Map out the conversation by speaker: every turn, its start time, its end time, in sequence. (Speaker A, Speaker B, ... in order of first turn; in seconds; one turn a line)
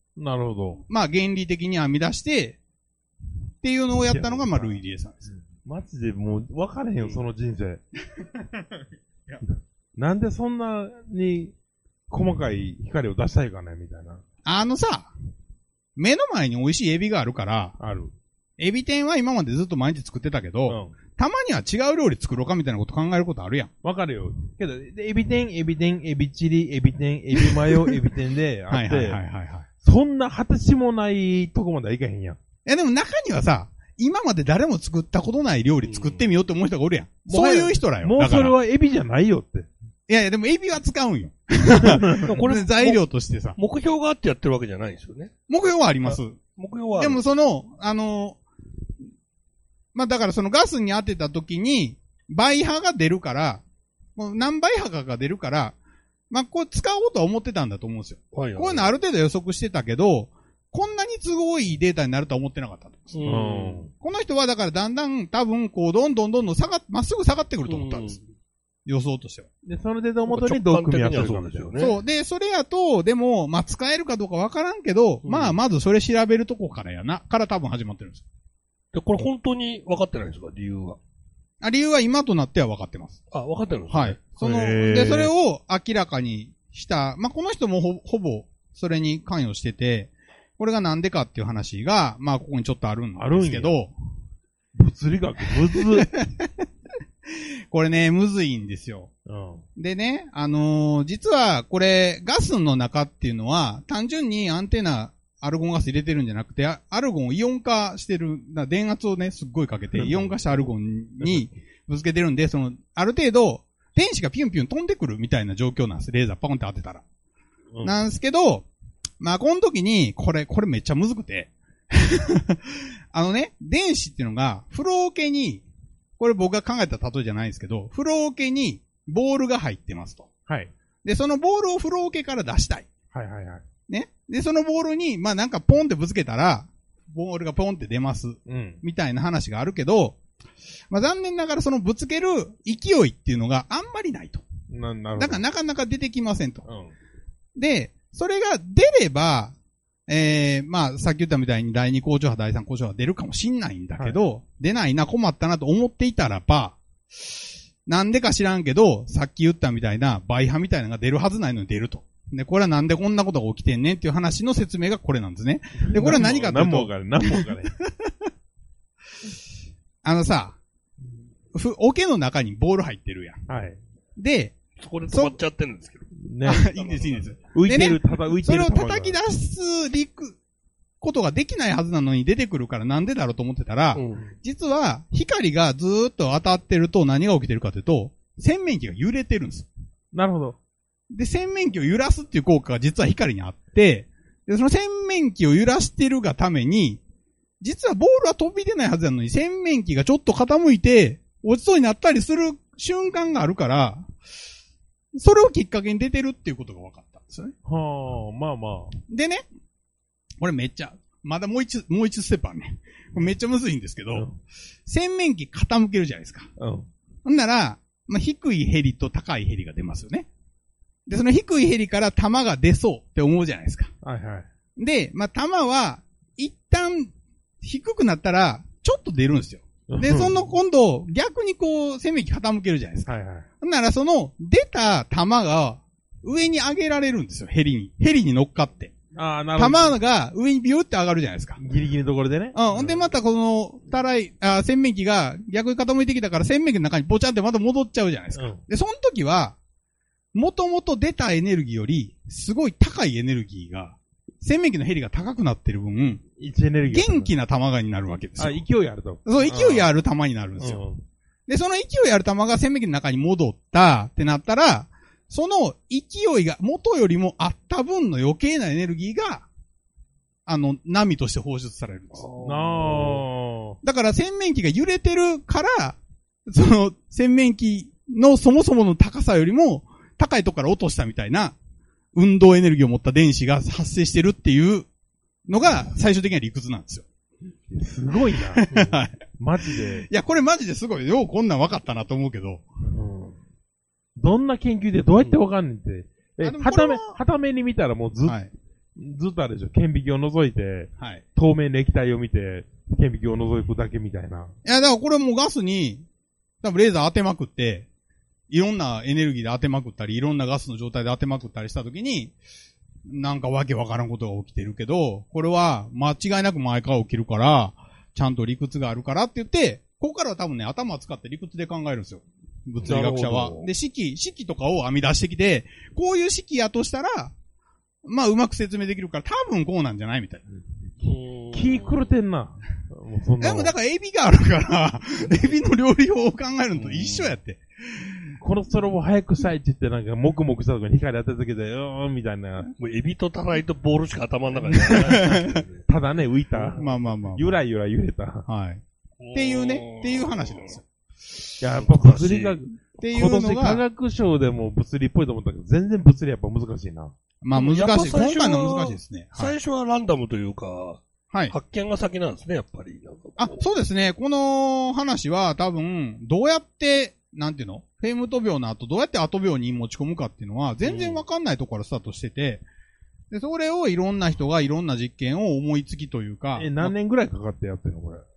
Speaker A: 0.2-0.8
Speaker B: 0.9-2.6
Speaker B: 3.6-5.3
Speaker A: 4.1-4.8
Speaker A: 5.5-7.8
Speaker A: 10.0-11.5
Speaker A: 12.1-14.2
Speaker B: 14.4-15.1
Speaker B: 16.0-17.8
Speaker A: 17.8-18.1
Speaker B: 18.6-23.7
Speaker A: 20.7-20.9
Speaker A: 23.8-29.2
Speaker B: 28.7-29.7
Speaker A: 29.8-32.4
Speaker B: 32.7-38.5
Speaker C: 35.9-36.2
Speaker A: 37.3-39.7
Speaker B: 40.1-43.6
Speaker A: 41.8-42.3
Speaker C: 42.2-43.0
Speaker C: 43.6-45.3
Speaker B: 45.5-46.4
Speaker C: 46.0-47.2
Speaker B: 47.0-48.4
Speaker B: 49.9-53.6
Speaker B: 54.2-55.8
Speaker B: 56.3-63.2
Speaker C: 58.3-58.9
Speaker C: 63.1-63.9
Speaker A: 63.2-63.9
Speaker B: 64.0-68.2
Speaker C: 67.7-68.2
Speaker B: 68.9-69.5
Speaker A: 69.6-71.8
Speaker C: 70.3-72.0
Speaker B: 71.8-78.2
Speaker C: 75.2-75.6
Speaker C: 78.9-81.0
Speaker B: 81.6-83.2
Speaker C: 83.3-84.2
Speaker B: 83.9-93.9
Speaker A: 84.4-85.3
Speaker A: 93.2-93.8
Speaker A: 94.8-96.1
Speaker B: 96.0-96.5
Speaker B: 97.3-99.1
Speaker A: 99.3-99.6
Speaker B: 99.8-117.0
Speaker A: 110.0-110.7
Speaker A: 111.2-111.5
Speaker B: 117.8-118.7
Speaker B: 119.2-125.7
Speaker B: 126.2-130.3
Speaker B: 131.0-132.9
Speaker A: 133.1-133.6
Speaker B: 133.9-140.2
Speaker A: 138.5-138.8
Speaker B: 140.9-144.4
Speaker A: 144.7-145.4
Speaker B: 145.2-146.7
Speaker A: 146.7-146.9
Speaker B: 147.6-149.6
Speaker B: 150.1-157.3
Speaker B: 157.9-168.2
Speaker A: 165.8-167.7
Speaker B: 170.0-170.6
Speaker B: 171.5-173.4
Speaker A: 173.5-173.8
Speaker B: 174.2-174.6
Speaker C: 174.8-177.5
Speaker B: 175.1-175.4
Speaker A: 176.2-176.7
Speaker B: 176.4-180.4
Speaker A: 177.5-179.2
Speaker B: 181.0-189.7
Speaker C: 183.9-184.3
Speaker A: 190.1-190.6
Speaker B: 191.1-197.0
Speaker B: 197.6-204.1
Speaker B: 205.1-207.6
Speaker A: 207.7-208.9
Speaker B: 209.1-209.4
Speaker B: 210.4-214.3
Speaker A: 214.1-214.4
Speaker B: 214.9-216.5
Speaker A: 216.6-216.9
Speaker B: 217.2-220.3
Speaker B: 221.1-223.9
Speaker A: 224.0-224.5
Speaker B: 224.8-238.9
Speaker A: 229.9-230.5
Speaker A: 233.1-233.5
Speaker A: 239.1-240.0
Speaker B: 239.6-241.6
Speaker A: 241.6-243.0
Speaker B: 242.5-249.6
Speaker A: 248.3-248.6
Speaker B: 250.3-256.2
Speaker A: 256.4-257.3
Speaker B: 256.9-258.6
Speaker A: 258.4-259.9
Speaker B: 259.2-260.8
Speaker A: 260.6-261.0
Speaker B: 261.5-269.5
Speaker B: 270.5-272.3
Speaker C: 272.1-273.2
Speaker A: 272.4-273.8
Speaker B: 273.8-281.6
Speaker B: 282.1-284.9
Speaker B: 285.5-287.1
Speaker A: 287.7-288.7
Speaker B: 288.5-289.2
Speaker C: 288.7-289.0
Speaker A: 289.4-290.1
Speaker B: 289.7-292.6
Speaker A: 292.9-293.4
Speaker A: 294.2-298.4
Speaker B: 296.4-297.2
Speaker B: 298.2-298.5
Speaker A: 299.0-304.5
Speaker B: 301.0-301.2
Speaker B: 304.6-306.1
Speaker B: 306.6-307.9
Speaker B: 308.5-312.3
Speaker B: 313.1-327.3
Speaker C: 322.8-323.7
Speaker B: 328.1-330.4
Speaker C: 331.0-332.1
Speaker A: 331.5-333.7
Speaker B: 333.4-338.3
Speaker C: 336.8-337.4
Speaker A: 338.4-342.7
Speaker C: 342.8-345.9
Speaker B: 344.8-345.6
Speaker A: 345.9-348.5
Speaker B: 346.8-347.5
Speaker B: 348.5-350.9
Speaker C: 349.2-350.8
Speaker A: 351.6-357.1
Speaker C: 351.7-352.6
Speaker B: 353.0-353.8
Speaker B: 357.4-359.6
Speaker C: 357.5-363.7
Speaker B: 363.4-372.6
Speaker C: 370.8-371.2
Speaker B: 373.3-376.9
Speaker A: 376.6-378.2